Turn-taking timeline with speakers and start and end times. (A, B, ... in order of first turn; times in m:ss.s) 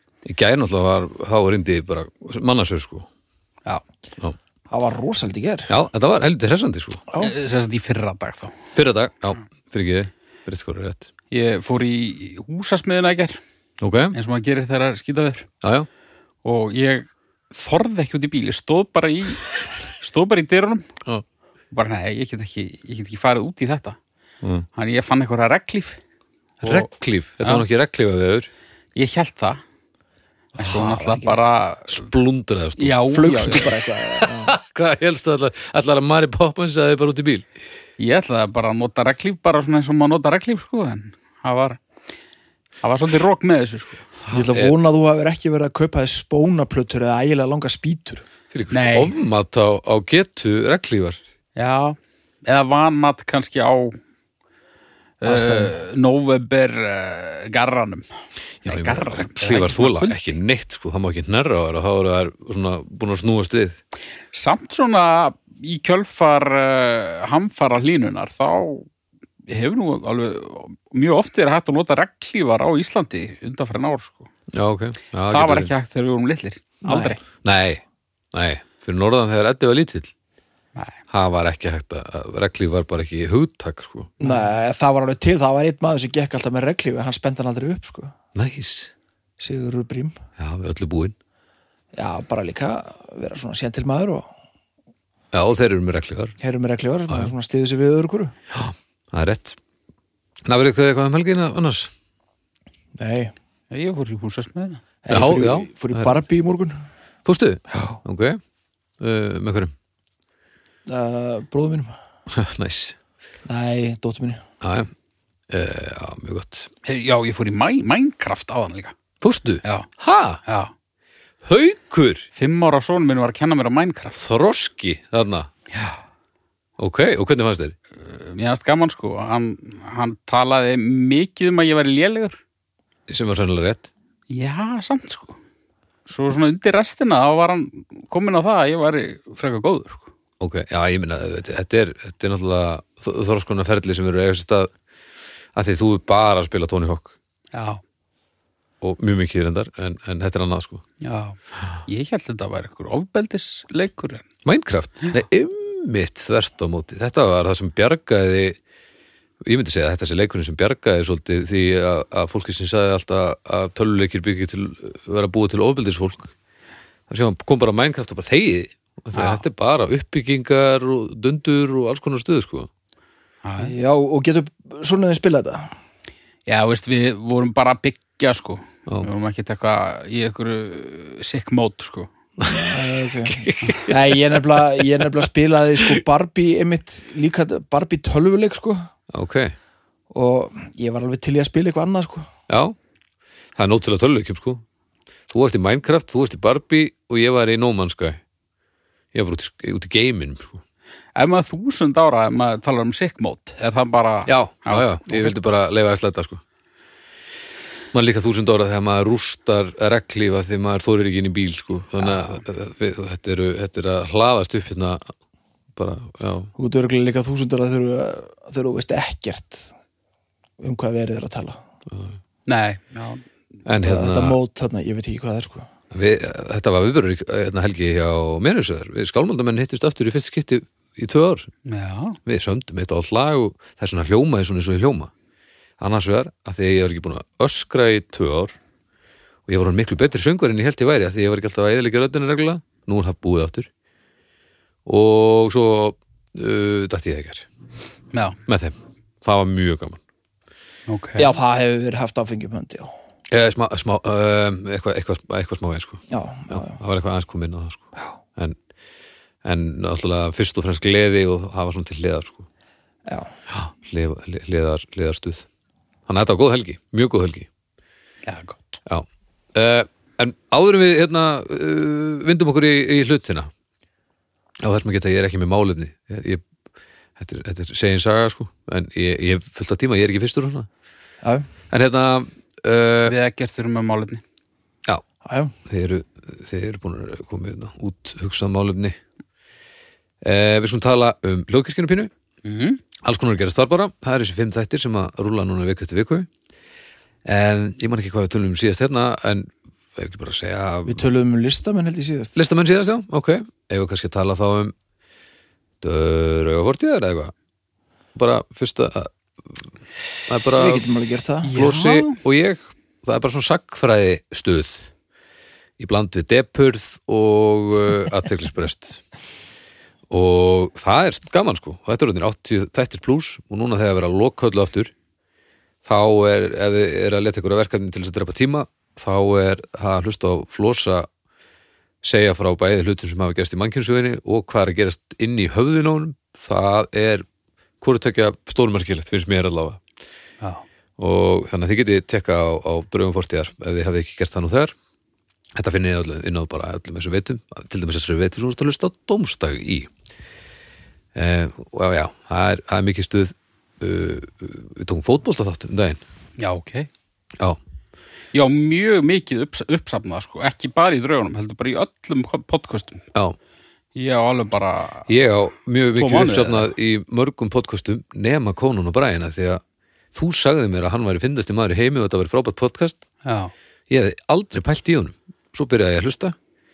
0:00.2-0:03.1 A
0:04.7-0:05.7 B
0:05.7-0:07.0 A
0:07.2-0:08.6 C
0:08.8-0:11.1 A
0:11.3-0:13.4 C
0:13.8-0:14.2 A
0:14.1-0:15.5 C
0:15.6-0:15.9 A
0:16.4-0:20.9 C
0:21.7-0:24.0 C
0:24.8-0:26.0 C
0:26.6-0:28.5 A
0:27.4-0:27.7 C
0:29.0-0:29.6 C
0:30.6-0:32.1 C
0:30.6-0:31.5 B
0:31.9-0:37.5 A
0:32.8-0:33.7 C
0:33.1-0:34.5 B
0:38.0-0:41.8 C
0:42.8-0:44.1 C
0:44.2-0:44.7 A
0:44.3-0:48.2 B
0:48.5-0:51.2 A
0:48.7-0:49.1 C
0:51.6-0:54.0 C
0:55.2-0:58.1 C
0:55.2-0:55.7 B
0:58.6-1:00.3 C
0:58.6-1:03.8 A
1:04.3-1:08.9 C
1:09.5-1:14.3 C
1:14.5-1:15.7 A
1:15.3-1:17.2 C
1:16.9-1:17.2 B
1:17.4-1:17.8 A
1:18.3-1:20.1 A
1:21.1-1:24.1 A
1:24.2-1:28.2 B
1:28.4-1:28.9 A
1:29.4-1:30.2 B
1:30.4-1:31.2 A
1:31.9-1:34.3 B
1:35.3-1:36.4 A
1:36.4-1:38.3 B
1:38.5-1:39.6 A
1:40.4-1:41.9 A
1:43.0-1:43.3 B
1:43.7-1:44.8 C
1:45.0-1:46.8 B
1:45.1-1:46.2 A
1:47.2-1:48.4 A
1:47.7-1:48.0 B
1:49.0-1:49.7 A
1:50.9-1:51.9 B
1:52.3-1:53.0 A
1:53.5-1:54.4 B
1:54.6-1:54.9 A
1:55.5-1:56.7 A
1:56.8-1:58.9 C
1:59.2-2:00.4 A
2:00.5-2:00.7 C
2:01.4-2:02.3 A
2:02.4-2:04.2 C
2:04.2-2:05.5 A
2:05.7-2:06.0 C
2:06.8-2:07.8 A
2:08.0-2:12.4 C
2:13.1-2:13.9 A
2:14.3-2:15.4 C
2:16.1-2:20.1 C
2:20.4-2:24.7 A
2:25.6-2:27.1 A
2:27.5-2:27.8 C
2:28.8-2:30.8 A
2:31.0-2:34.2 C
2:34.4-2:38.6 A
2:39.4-2:46.3 A
2:47.1-2:52.7 A
2:49.2-2:49.4 C
2:53.4-2:53.8 C
2:53.6-2:55.7 B
2:56.5-3:02.1 C
3:02.4-3:05.1 A
3:02.4-3:08.9 B
3:09.1-3:09.5 A
3:10.1-3:12.3 B
3:12.5-3:12.8 A
3:13.6-3:14.6 A
3:15.3-3:18.2 A
3:19.1-3:20.6 A
3:21.2-3:25.4 C
3:24.3-3:26.4 A
3:27.9-3:35.1 A
3:32.0-3:32.4 C
3:35.8-3:36.5 A
3:36.6-3:39.7 B
3:40.6-3:41.6 B
3:41.9-3:42.2 A
3:42.5-3:43.2 C
3:43.7-3:44.4 A
3:43.8-3:45.7 B
3:45.9-3:51.5 A
3:51.7-3:52.2 C
3:52.3-3:55.1 A
3:55.8-3:58.6 A
3:59.5-4:03.7 A
4:04.9-4:07.5 A
4:08.1-4:08.4 C
4:08.5-4:10.0 A
4:10.9-4:11.3 C
4:11.2-4:12.9 B
4:13.3-4:18.6 A
4:16.1-4:16.8 B
4:19.4-4:22.5 A
4:23.5-4:25.5 A
4:26.1-4:27.5 A
4:28.2-4:28.8 C
4:28.9-4:33.5 A
4:34.6-4:36.4 A
4:37.2-4:40.7 A
4:41.7-4:43.2 A
4:43.0-4:44.2 C
4:45.2-4:45.6 B
4:45.7-4:49.0 A
4:50.2-4:52.1 A
4:52.4-4:52.8 C
4:53.0-4:56.3 A
4:57.3-5:01.1 A
5:00.8-5:02.4 B
5:02.4-5:04.7 A
5:05.8-5:07.3 A
5:08.2-5:09.6 A
5:10.3-5:10.9 A
5:10.6-5:11.5 B
5:11.5-5:12.2 C
5:11.5-5:14.9 A
5:15.8-5:19.0 A
5:20.1-5:24.9 A
5:25.8-5:31.1 A
5:32.0-5:37.3 A
5:37.8-5:39.8 A
5:41.0-5:44.8 A
5:45.6-5:49.9 A
5:51.2-5:56.0 A
5:56.4-5:56.9 C
5:58.3-6:03.1 C
6:04.0-6:05.1 C
6:05.1-6:09.6 A
6:06.0-6:06.7 C
6:10.1-6:13.0 A
6:13.2-6:13.5 C
6:13.9-6:16.4 A